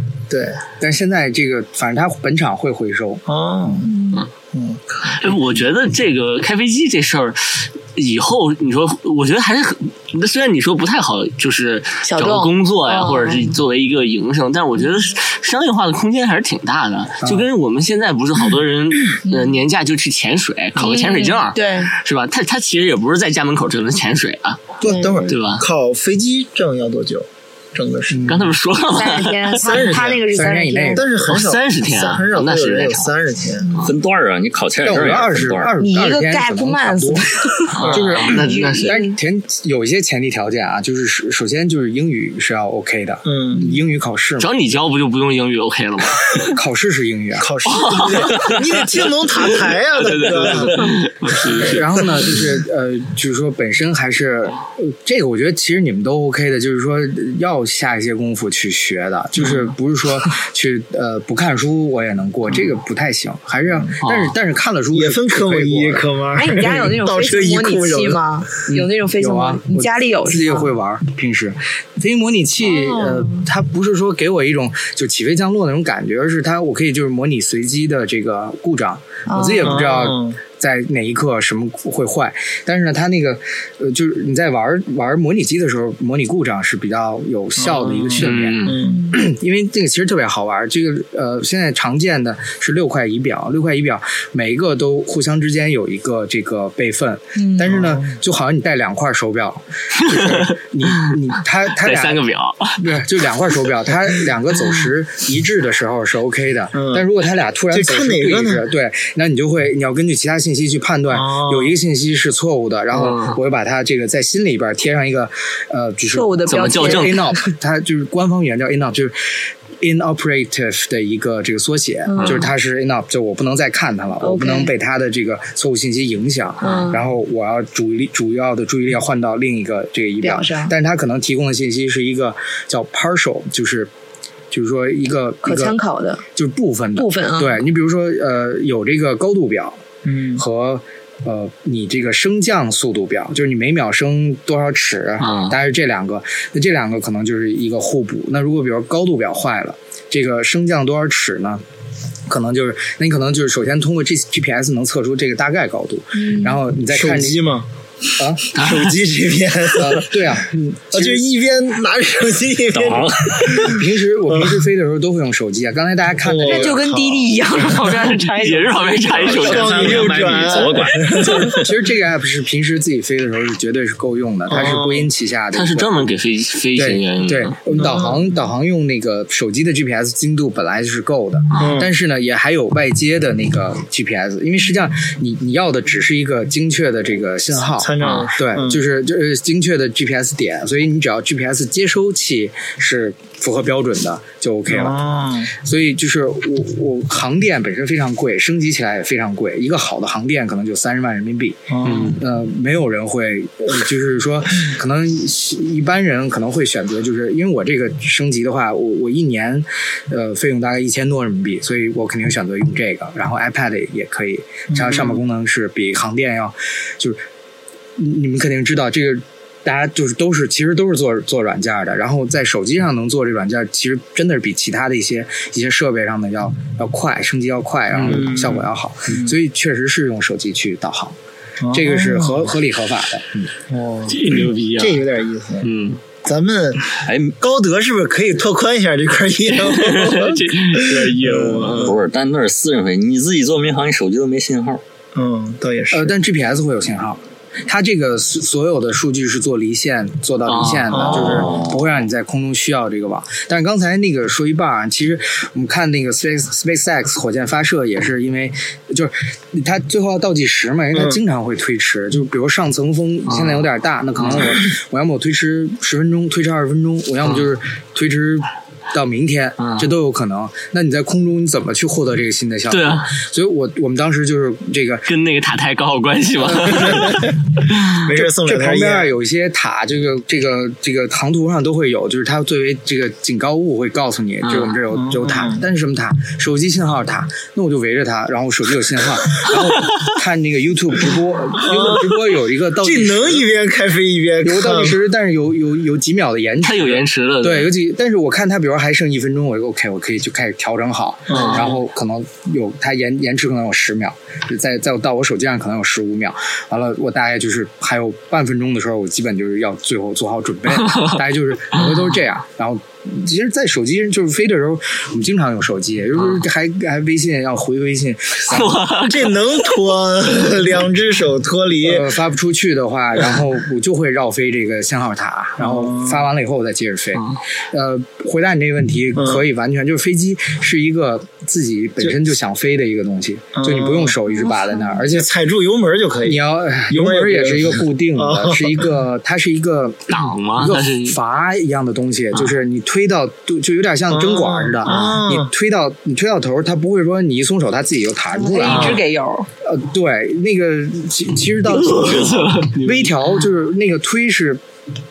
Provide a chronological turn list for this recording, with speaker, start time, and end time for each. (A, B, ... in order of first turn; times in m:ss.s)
0:00.3-0:00.6 A
0:00.8-0:03.2 B
0:03.3-0:03.9 A
0:03.8-0:04.2 C
0:04.5-0:05.3 A
0:05.1-0:24.7 D
0:12.0-0:13.6 C
0:19.2-0:19.6 C
0:20.8-0:21.9 C
0:24.8-0:28.4 A
0:24.8-0:25.2 C
0:25.3-0:25.6 D
0:28.1-0:28.5 B
0:28.3-0:29.8 D
0:28.9-0:31.0 C
0:29.6-0:30.2 A
0:30.3-0:31.1 B
0:30.9-0:33.7 A
0:31.3-0:33.1 D
0:33.8-0:35.7 E
0:34.8-0:44.5 B
0:35.8-0:39.2 C
0:37.7-0:39.0 D
0:43.2-0:43.8 A
0:44.4-0:46.5 D
0:46.5-0:47.5 B
0:47.4-0:52.0 A
0:47.7-0:52.4 D
0:51.6-1:06.1 B
1:04.0-1:04.4 D
1:04.9-1:08.2 A
1:06.4-1:10.7 C
1:08.7-1:42.2 B
1:12.6-1:13.4 C
1:19.3-1:19.8 C
1:19.6-1:20.4 A
1:27.6-1:29.0 A
1:28.2-1:28.8 D
1:28.8-1:29.2 C
1:37.4-1:37.7 C
1:37.7-1:38.2 A
1:40.1-1:41.0 D
1:41.8-1:42.8 D
1:42.8-2:13.9 B
1:46.7-1:47.1 A
1:47.7-1:48.7 A
1:51.1-1:51.8 A
1:52.9-1:53.4 D
1:56.1-1:57.5 C
1:56.5-1:57.2 D
2:02.1-2:02.5 C
2:04.2-2:04.7 C
2:06.6-2:07.0 C
2:10.2-2:10.7 C
2:14.5-2:15.8 B
2:15.4-2:16.2 C
2:16.3-2:19.8 B
2:17.0-2:17.6 C
2:20.0-2:20.4 A
2:20.4-2:31.6 B
2:25.2-2:25.6 D
2:32.3-2:37.4 B
2:36.1-2:36.6 C
2:36.9-2:37.7 A
2:38.2-2:38.5 B
2:38.5-2:44.6 A
2:38.6-2:38.9 D
2:39.8-2:41.2 B
2:42.7-2:43.7 E
2:43.6-2:47.0 B
2:46.2-2:47.0 A
2:46.4-2:49.8 C
2:48.2-2:50.2 D
2:49.4-2:51.7 E
2:49.4-2:51.5 A
2:51.1-2:56.1 B
2:54.5-2:55.1 A
2:55.5-2:57.6 D
2:56.8-3:15.0 B
2:57.7-2:58.2 A
3:01.6-3:01.9 A
3:07.6-3:08.8 A
3:08.0-3:08.3 D
3:14.7-3:15.5 A
3:15.5-3:37.2 B
3:21.7-3:22.2 A
3:21.8-3:22.2 D
3:34.7-3:35.2 A
3:38.0-3:51.2 B
3:47.9-3:48.3 D
3:48.0-3:49.4 A
3:51.6-3:52.6 A
3:51.7-3:53.5 B
3:53.7-3:55.7 A
3:54.1-3:55.0 D
3:55.6-3:56.0 D
3:56.2-4:02.0 A
3:57.0-3:57.4 E
3:59.6-4:02.0 D
4:01.8-4:04.8 E
4:05.1-4:06.2 A
4:05.9-4:35.1 B
4:10.5-4:11.4 D
4:10.9-4:11.5 A
4:11.1-4:11.9 E
4:20.9-4:21.2 A
4:23.3-4:24.6 D
4:27.2-4:27.5 D
4:29.6-4:29.9 D
4:32.7-4:33.1 D
4:35.1-4:37.9 D
4:36.4-4:37.3 B
4:36.9-4:37.3 A
4:37.9-4:39.1 A
4:38.1-4:53.5 B
4:44.4-4:44.8 D
4:44.9-4:45.6 A
4:51.6-4:55.0 A
4:54.4-5:18.9 B
4:56.6-4:57.7 D
5:01.3-5:01.8 A
5:01.3-5:01.8 D
5:16.2-5:16.4 D
5:18.5-5:19.3 D
5:19.0-5:22.2 A
5:21.8-5:35.3 B
5:25.6-5:26.3 A
5:29.2-5:29.5 A
5:32.0-5:32.2 A
5:33.6-5:34.2 A
5:34.3-5:35.0 C
5:35.0-5:39.0 A
5:36.2-5:49.0 B
5:40.1-5:41.2 D
5:44.1-5:45.5 A
5:44.9-5:45.2 D
5:48.3-5:49.5 C
5:48.7-5:49.0 D
5:49.6-5:54.6 B
5:51.7-5:53.4 D